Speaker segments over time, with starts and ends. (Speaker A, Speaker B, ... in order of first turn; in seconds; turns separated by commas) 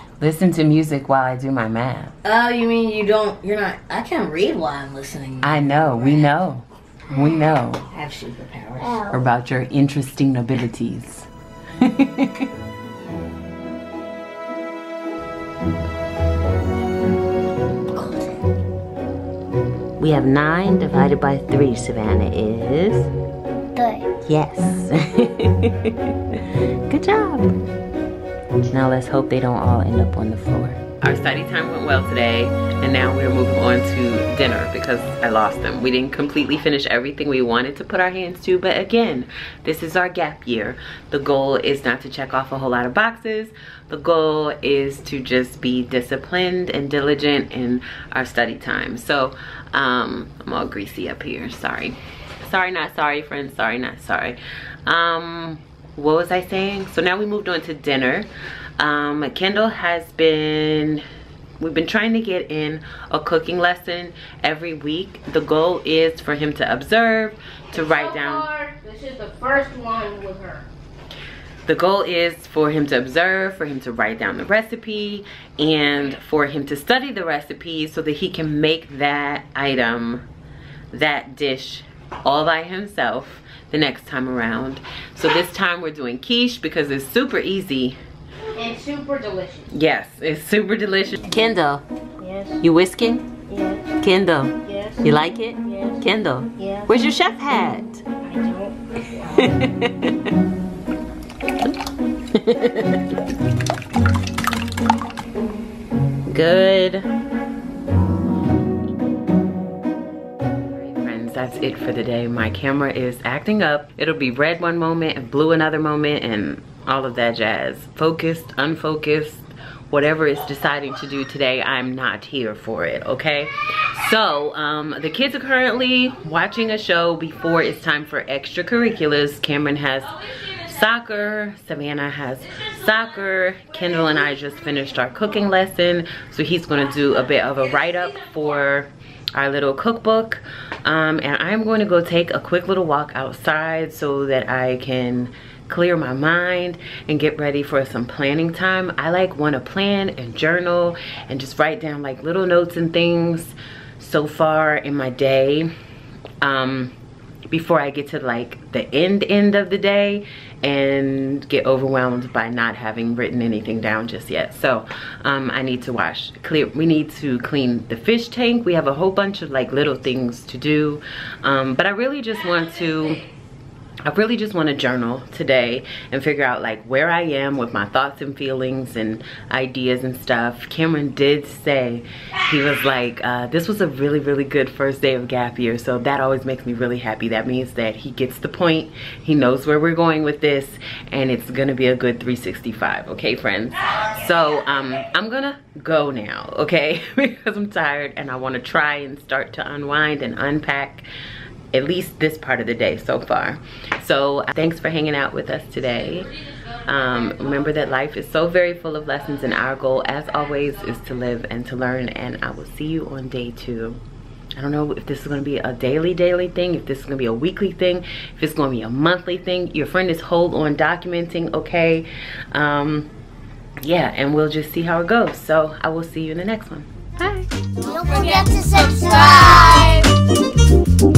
Speaker A: 0.2-2.1, Speaker B: 2.2-5.9, Speaker A: 5.4-7.8, Speaker B: 7.9-9.1, Speaker A: 9.1-12.5, Speaker A: 20.0-23.1, Speaker C: 23.8-24.1, Speaker A: 24.2-27.5, Speaker A: 28.7-58.3, Speaker A: 58.8-61.0, Speaker A: 61.6-68.5, Speaker D: 67.9-70.6, Speaker A: 71.7-80.2, Speaker A: 80.9-88.0, Speaker D: 88.5-89.7, Speaker A: 89.7-91.8, Speaker D: 92.2-92.6, Speaker A: 92.6-93.3, Speaker D: 93.5-93.8, Speaker A: 94.0-98.0, Speaker D: 94.7-95.0, Speaker D: 95.6-96.0, Speaker D: 96.6-96.9, Speaker D: 98.2-98.7, Speaker A: 99.1-100.3, Speaker A: 102.3-103.0, Speaker A: 106.2-107.1, Speaker A: 110.8-155.7, Speaker A: 156.4-156.9, Speaker A: 157.5-173.2, Speaker A: 174.0-201.0, Speaker A: 201.7-214.0, Speaker A: 214.6-223.1, Speaker A: 223.8-227.5, Speaker C: 227.8-230.1